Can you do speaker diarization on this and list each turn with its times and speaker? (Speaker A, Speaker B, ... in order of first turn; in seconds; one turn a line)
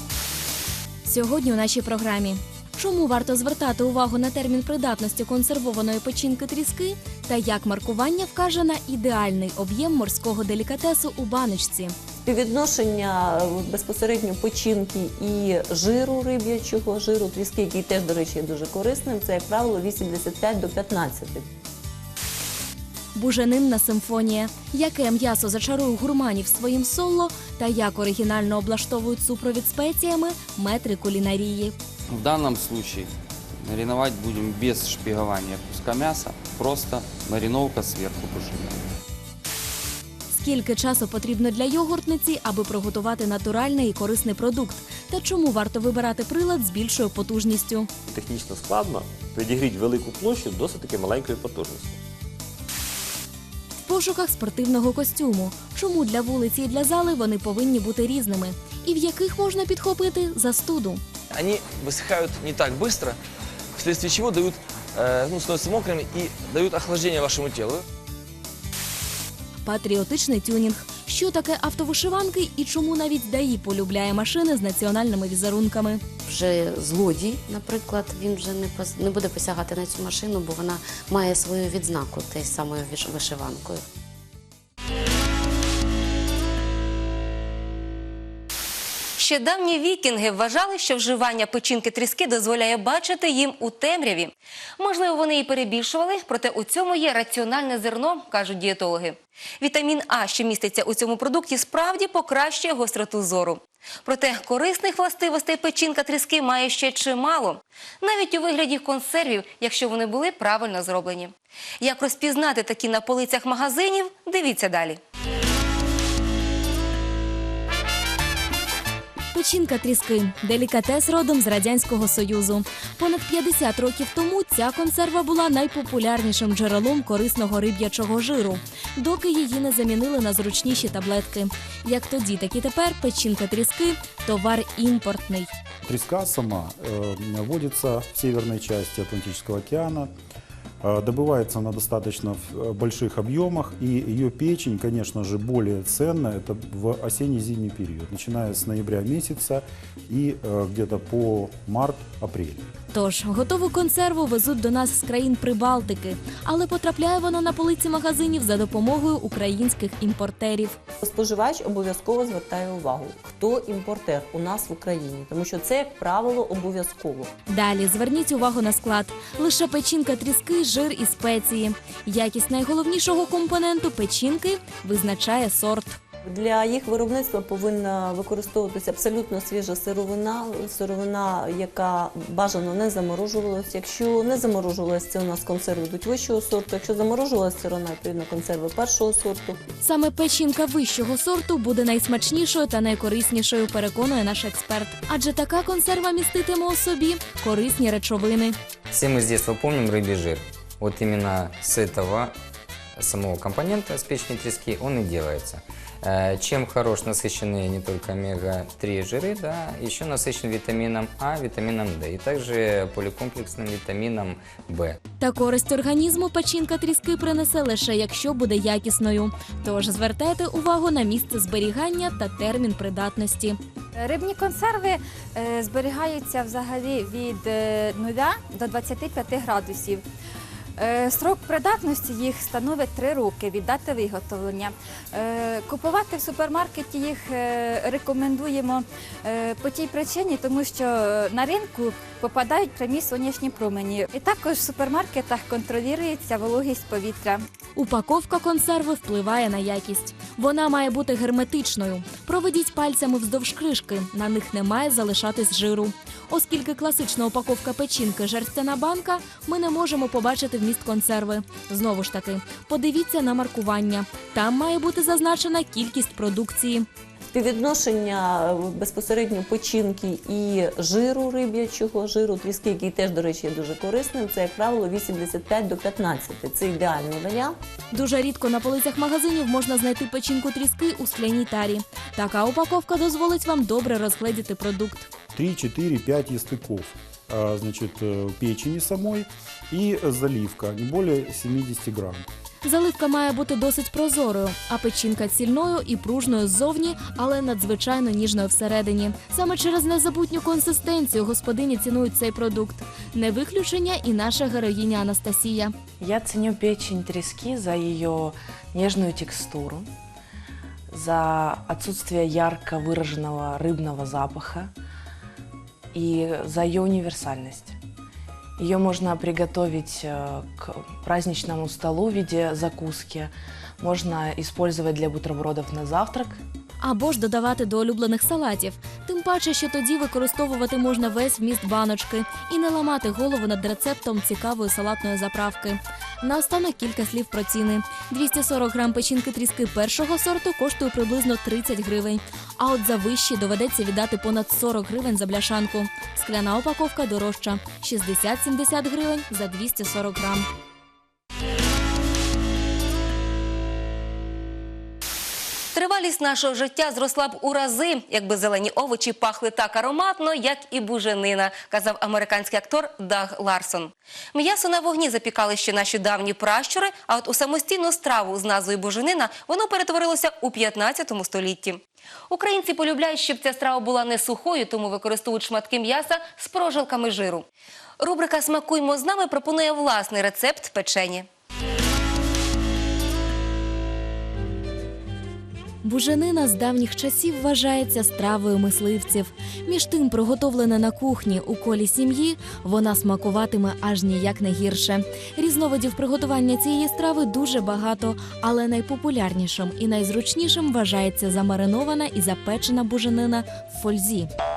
Speaker A: 1.1-11.9
Speaker B: 12.2-21.5
Speaker A: 23.1-31.7
Speaker C: 32.1-33.1
Speaker C: 33.6-38.8
Speaker A: 40.3-47.9
Speaker D: 48.1-52.0
Speaker A: 53.8-61.0
Speaker E: 61.3-63.2
Speaker E: 63.8-67.8
Speaker A: 69.7-76.0
Speaker F: 76.2-83.8
Speaker G: 89.2-115.0
Speaker A: 119.3-135.5
Speaker H: 135.8-140.1
Speaker H: 140.8-152.6
Speaker A: 152.9-160.8
Speaker B: 161.0-167.3
Speaker A: 167.5-176.0
Speaker B: 176.2-189.6
Speaker A: 189.8-198.6
Speaker I: 198.9-202.3
Speaker I: 203.0-215.0
Speaker A: 215.2-223.6
Speaker J: 223.9-230.1
Speaker J: 230.8-247.4
Speaker A: 247.8-266.9
Speaker B: 267.3-277.6
Speaker A: 277.9-285.1
Speaker H: 285.3-292.3
Speaker A: 292.6-305.7
Speaker K: 306.0-309.9
Speaker K: 310.9-314.7
Speaker K: 315.9-317.8
Speaker K: 318.6-326.4
Speaker A: 326.8-350.5
Speaker G: 355.7-377.4
Speaker G: 378.0-381.3
Speaker A: 385.8-404.3